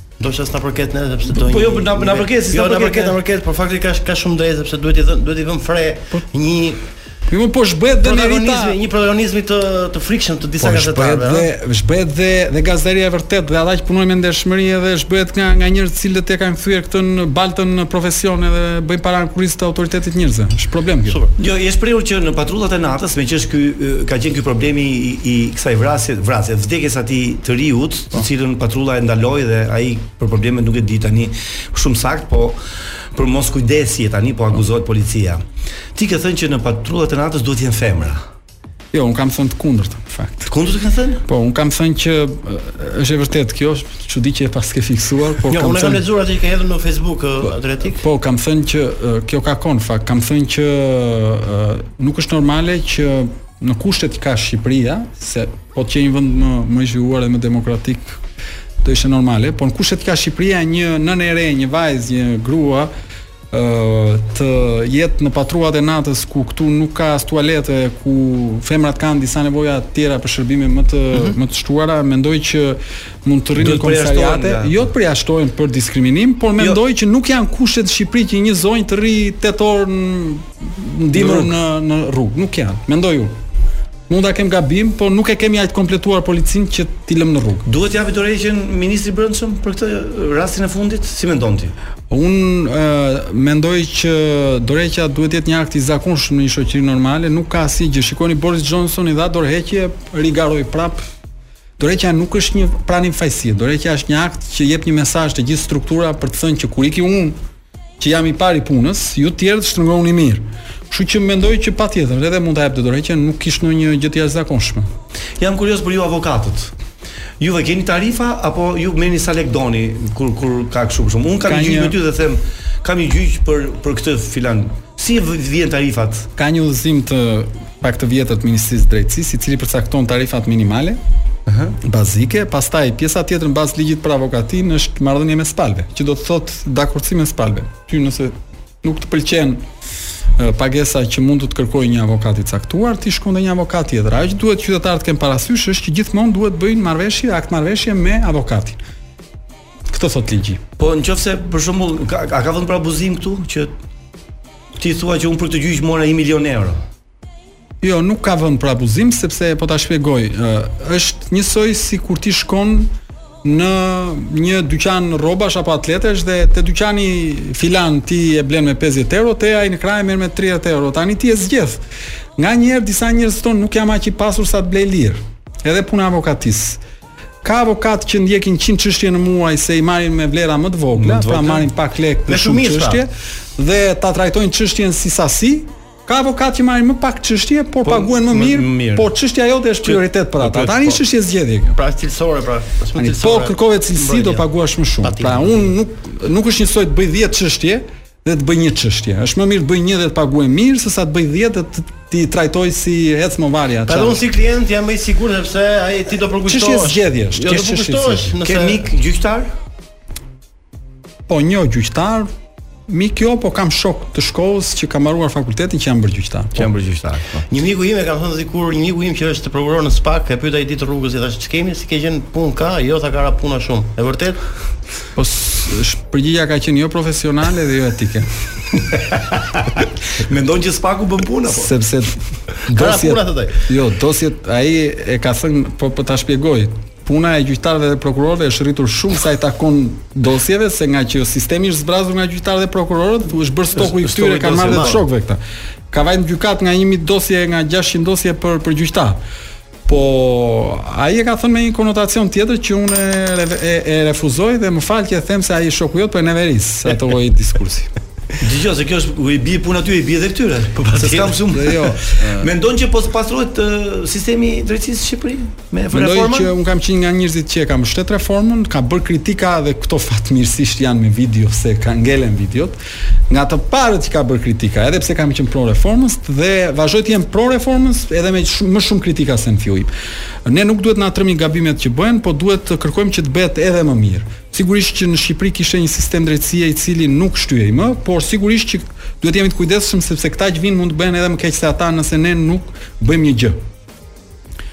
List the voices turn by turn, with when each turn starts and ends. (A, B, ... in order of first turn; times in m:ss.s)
0:00.2-0:06.8 A
0:01.3-0:03.2 B
0:07.3-0:08.8 C
0:08.0-0:11.5 A
0:10.6-0:21.2 C
0:21.4-0:32.6 B
0:33.1-0:35.4 B
0:35.9-0:38.2 B
0:38.9-0:40.5 C
0:40.5-0:41.2 B
0:41.2-0:46.0 C
0:45.5-0:48.0 A
0:48.0-0:58.2 C
0:58.8-1:02.9 C
1:03.5-1:23.3 C
1:13.5-1:14.9 B
1:21.1-1:21.5 B
1:24.1-1:27.6 C
1:27.6-1:31.7 B
1:32.1-1:41.0 C
1:41.8-1:47.4 C
1:48.0-1:54.9 C
1:55.4-1:56.7 B
1:57.4-2:06.3 B
2:01.4-2:02.0 C
2:06.4-2:11.0 C
2:11.5-2:11.8 B
2:11.8-2:19.6 C
2:20.4-2:28.8 C
2:29.9-2:30.6 C
2:30.8-2:33.7 B
2:34.8-2:36.8 B
2:37.8-2:42.9 C
2:43.4-2:51.8 C
2:52.4-2:56.8 C
2:57.4-3:11.8 C
3:00.9-3:01.7 B
3:02.3-3:03.0 A
3:07.8-3:09.1 B
3:09.8-3:11.0 B
3:11.7-3:14.4 A
3:13.0-3:24.2 C
3:15.0-3:15.6 A
3:23.8-3:28.9 A
3:26.4-3:28.3 C
3:28.4-3:29.5 B
3:31.3-3:32.3 C
3:32.9-3:36.7 C
3:36.6-3:37.4 B
3:37.5-3:44.4 A
3:45.1-3:48.3 C
3:48.9-3:49.2 B
3:50.2-3:51.7 B
3:51.5-4:05.4 C
3:52.7-3:53.6 A
4:03.7-4:05.0 B
4:05.9-4:09.2 C
4:09.8-4:17.9 C
4:18.4-4:26.5 B
4:20.8-4:21.4 A
4:21.5-4:22.5 C
4:25.9-4:32.8 C
4:33.3-4:39.9 C
4:40.4-4:53.6 C